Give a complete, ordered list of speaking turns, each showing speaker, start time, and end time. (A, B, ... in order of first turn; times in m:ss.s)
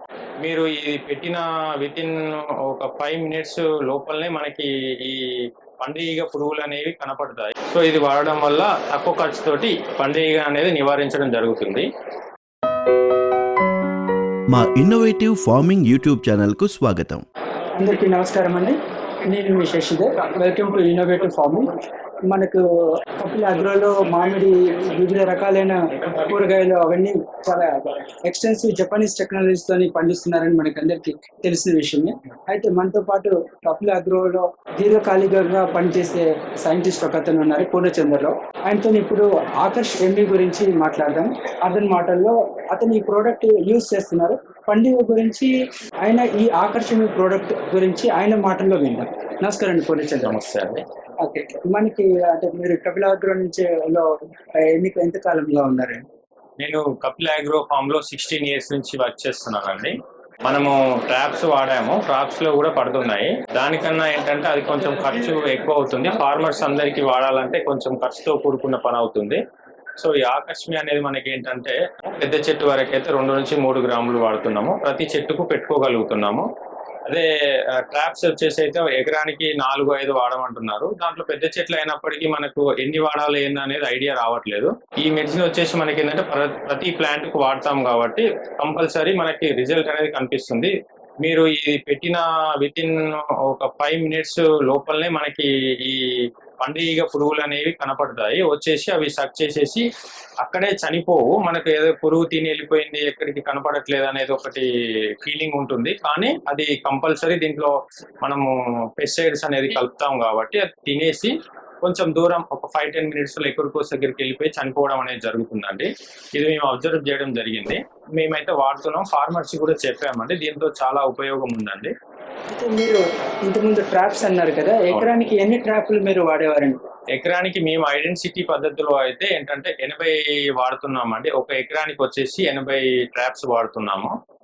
0:00.4-0:11.9 A
0:14.5-0:17.2 B
0:17.8-0:18.8 C
0:19.3-0:21.8 C
0:22.3-0:22.6 C
0:23.2-0:45.5 C
0:46.0-0:50.4 C
0:50.2-0:50.8 A
0:51.2-0:54.1 C
0:54.7-0:56.0 C
0:56.6-1:09.4 A
1:10.0-1:16.4 A
1:17.8-1:36.1 A
1:36.6-1:39.9 A
1:40.4-1:44.7 A
1:45.2-2:01.9 A
2:02.5-2:06.8 C
2:07.2-2:14.1 A